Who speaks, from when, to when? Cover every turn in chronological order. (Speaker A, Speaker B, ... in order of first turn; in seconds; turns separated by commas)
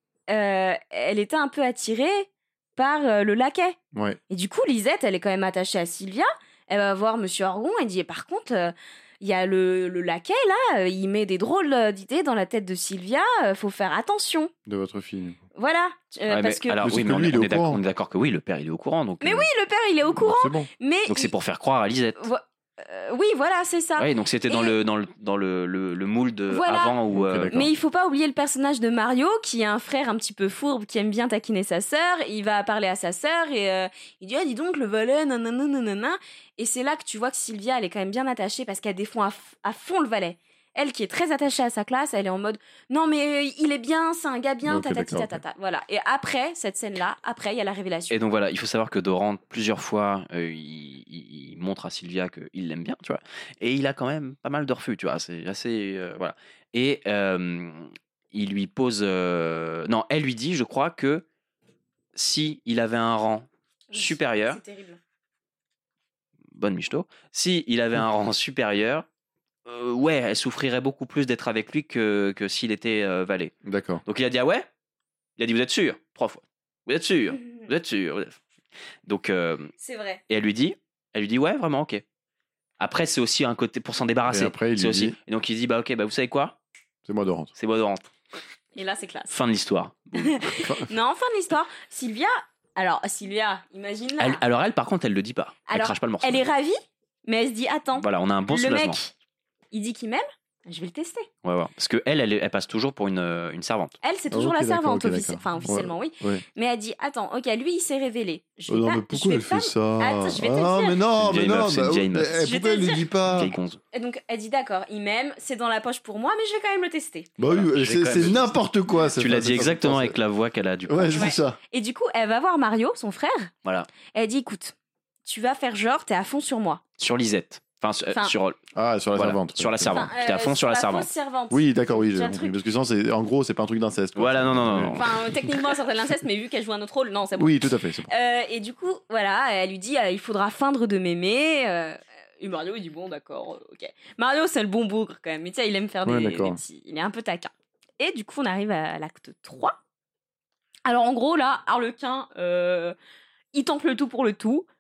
Speaker A: 0.3-3.8, Speaker B: 3.9-4.2, Speaker A: 4.3-14.5, Speaker B: 14.7-15.4, Speaker A: 15.6-16.8, Speaker C: 16.3-19.5, Speaker B: 16.8-17.8, Speaker A: 19.2-21.3, Speaker B: 20.1-20.7, Speaker C: 21.1-22.2, Speaker A: 22.2-24.8, Speaker C: 24.0-27.7, Speaker A: 26.5-27.0, Speaker B: 27.1-27.7, Speaker A: 27.5-48.2, Speaker B: 44.7-45.4, Speaker C: 48.1-61.2, Speaker C: 62.1-64.6, Speaker A: 63.9-65.0, Speaker C: 66.5-69.1, Speaker C: 69.7-73.5, Speaker B: 73.7-74.0, Speaker C: 74.1-74.7, Speaker C: 75.4-78.4, Speaker C: 79.1-79.7, Speaker A: 79.8-80.2, Speaker C: 80.3-82.0, Speaker C: 82.8-86.6, Speaker B: 84.3-85.2, Speaker B: 87.0-87.5, Speaker C: 87.6-88.1, Speaker A: 88.8-89.3, Speaker C: 89.3-90.4, Speaker A: 90.2-94.4, Speaker B: 90.6-90.9, Speaker C: 94.2-96.4, Speaker A: 95.7-99.1, Speaker C: 98.0-99.0, Speaker A: 99.7-101.3, Speaker C: 101.4-104.0, Speaker A: 104.0-111.0, Speaker B: 104.3-106.5, Speaker B: 108.7-113.5, Speaker C: 111.2-112.4, Speaker A: 112.4-113.1, Speaker C: 113.3-113.8, Speaker A: 113.9-117.3, Speaker B: 117.4-120.2, Speaker C: 117.5-118.6, Speaker C: 119.1-121.3, Speaker B: 120.9-121.6, Speaker A: 121.1-123.5, Speaker A: 124.1-124.8, Speaker A: 125.3-126.8, Speaker C: 127.0-128.6, Speaker B: 128.8-130.0, Speaker C: 129.2-131.1, Speaker A: 129.9-132.6, Speaker B: 131.5-135.2, Speaker C: 134.2-135.1, Speaker A: 134.9-149.8, Speaker B: 137.4-138.1, Speaker B: 146.1-146.6, Speaker A: 150.9-153.0, Speaker A: 153.5-154.7